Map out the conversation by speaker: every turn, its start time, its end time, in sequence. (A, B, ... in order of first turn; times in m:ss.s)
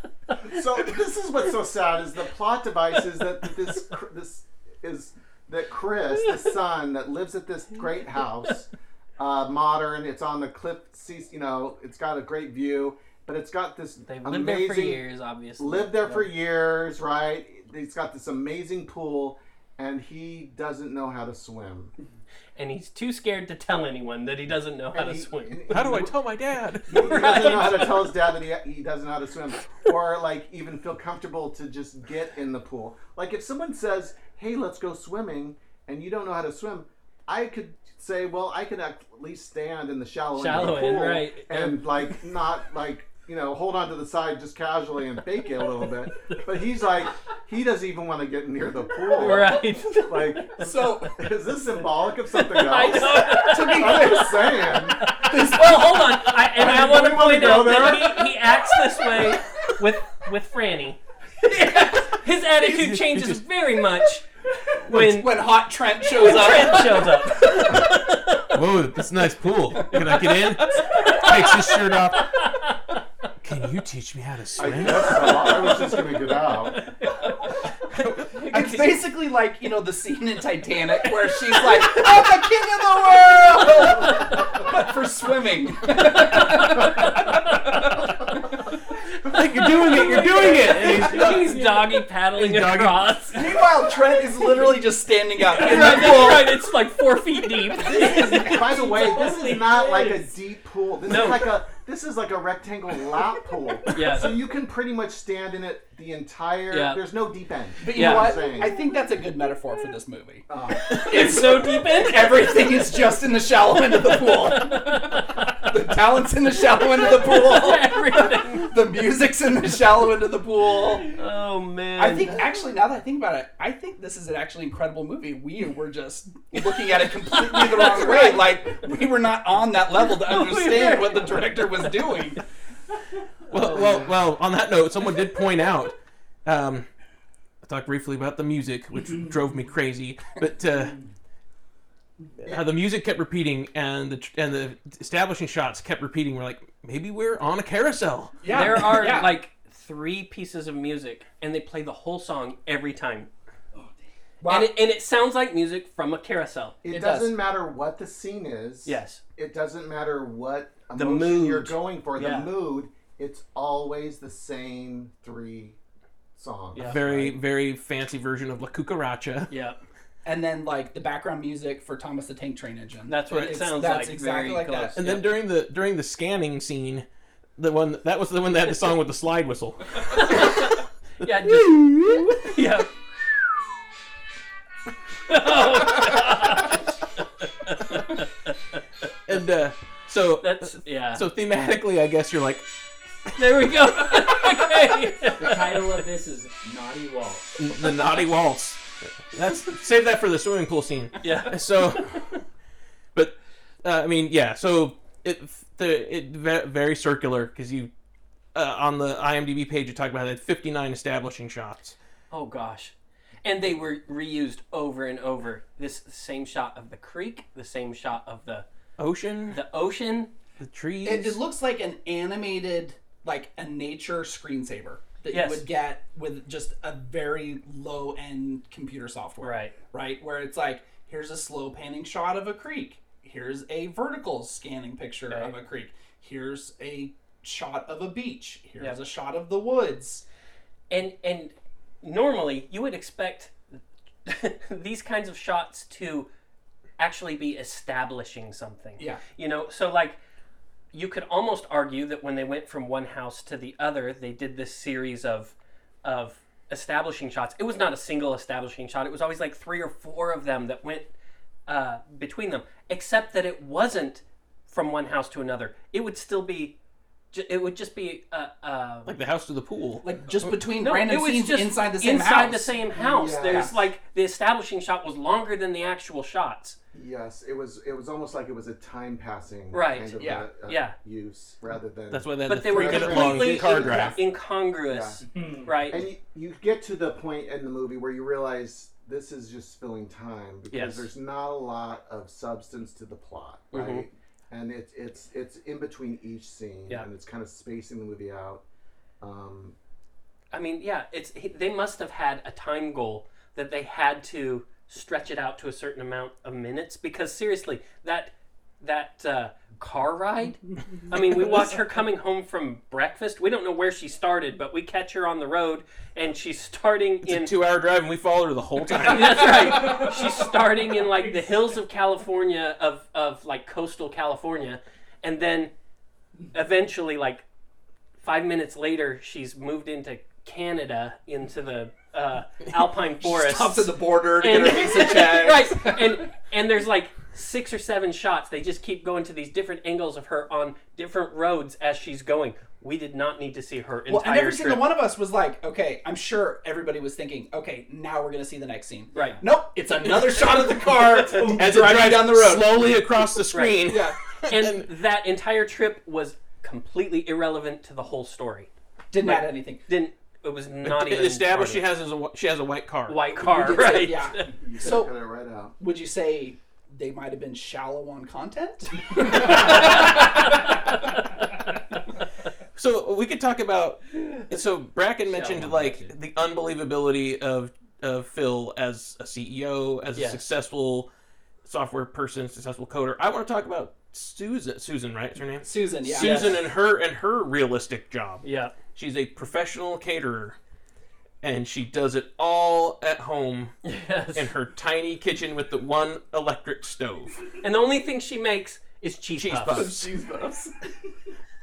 0:00.4-0:15.0 A
0:14.1-0:16.3 B
0:15.6-0:21.9 A
0:22.6-0:25.9 B
0:24.9-0:26.1 A
0:25.7-0:27.9 C
0:26.9-0:55.1 A
0:26.9-0:27.9 B
0:40.4-0:41.8 B
0:49.1-0:50.4 B
0:50.6-0:51.2 D
0:52.5-1:04.2 B
0:52.8-0:56.3 D
0:56.6-0:58.4 A
1:02.6-1:03.4 C
1:04.8-1:05.5 B
1:04.9-1:07.7 D
1:06.1-1:08.5 B
1:08.5-1:12.3 C
1:09.9-1:11.2 D
1:10.9-1:13.0 B
1:13.4-1:15.4 C
1:14.6-1:16.8 A
1:15.0-1:19.0 B
1:17.9-1:18.7 C
1:18.5-1:27.8 D
1:21.5-1:22.0 B
1:23.3-1:24.2 B
1:26.0-1:27.8 B
1:29.2-1:31.7 C
1:29.7-1:33.5 B
1:32.4-1:33.1 C
1:33.3-1:36.6 D
1:35.4-1:40.3 B
1:37.8-1:48.8 A
1:38.0-1:38.5 D
1:41.0-1:41.5 B
1:43.9-1:44.4 B
1:46.7-1:47.0 B
1:47.8-2:01.2 D
1:47.9-1:48.4 B
1:50.5-1:51.0 A
1:50.9-1:52.8 B
1:54.1-1:55.7 B
1:56.7-1:58.7 B
2:01.1-2:02.4 B
2:02.0-2:12.4 D
2:06.5-2:08.6 B
2:10.1-2:12.0 B
2:13.5-2:16.9 C
2:17.6-2:21.0 C
2:22.4-2:22.7 A
2:22.4-2:28.9 C
2:28.4-2:29.3 D
2:28.5-2:33.3 B
2:34.4-2:34.7 D
2:34.5-2:36.8 B
2:36.8-2:45.8 A
2:36.9-2:37.4 D
2:38.8-2:39.2 B
2:41.0-2:42.5 B
2:46.4-2:47.4 A
2:46.7-2:47.0 B
2:46.8-2:49.5 C
2:49.5-2:49.8 B
2:50.2-2:55.0 D
2:53.1-2:55.3 B
2:55.0-2:57.1 C
2:57.6-3:00.7 C
3:00.0-3:02.9 B
3:01.2-3:02.4 C
3:05.3-3:06.8 B
3:07.6-3:08.5 B
3:09.3-3:12.7 C
3:10.4-3:11.2 B
3:13.4-3:15.9 B
3:15.3-3:17.6 E
3:17.6-3:22.4 C
3:21.2-3:21.6 B
3:23.2-3:27.9 C
3:28.5-3:32.0 C
3:32.3-3:38.7 B
3:39.0-3:39.6 C
3:39.5-3:40.3 B
3:40.6-3:41.4 C
3:41.0-4:00.2 D
3:45.3-3:45.6 B
3:49.4-3:49.7 B
3:55.3-3:55.5 B
4:00.9-4:03.6 B
4:04.3-4:06.3 B
4:07.0-4:10.2 B
4:10.9-4:21.1 B
4:21.7-4:26.8 B
4:27.3-4:29.2 B
4:29.1-4:30.5 C
4:30.0-4:33.8 D
4:30.8-4:36.8 B
4:32.9-4:33.8 A
4:36.9-4:44.2 A
4:39.7-4:41.0 B
4:40.2-4:40.5 D
4:42.1-4:44.2 C
4:42.5-4:46.1 B
4:44.9-4:45.2 A
4:45.4-4:45.7 E
4:45.9-4:58.6 A
4:50.7-4:51.1 B
4:53.7-4:54.0 B
4:59.2-4:59.8 A
5:00.5-5:17.6 B
5:17.2-5:20.1 C
5:19.0-5:25.7 B
5:26.5-5:27.4 B
5:28.2-5:44.9 B
5:33.2-5:36.2 D
5:44.1-5:52.7 D
5:49.1-5:49.4 B
5:50.0-5:54.9 C
5:53.5-5:53.9 B
5:53.9-5:54.2 D
5:54.5-5:58.7 B
5:59.1-5:59.8 D
5:59.2-6:01.8 B
6:00.8-6:03.3 C
6:03.1-6:04.5 B
6:03.4-6:05.1 D
6:04.6-6:05.8 A
6:05.8-6:10.6 D
6:09.3-6:11.4 B
6:12.8-6:21.1 C
6:15.3-6:16.0 B
6:20.2-6:20.4 B
6:21.6-6:30.6 C
6:25.6-6:26.6 D
6:26.2-6:26.6 B
6:28.4-6:28.7 B
6:31.4-6:33.8 C
6:33.8-6:34.5 B
6:34.4-6:37.4 C
6:37.6-6:39.9 B
6:39.4-6:40.2 C
6:39.7-6:40.7 D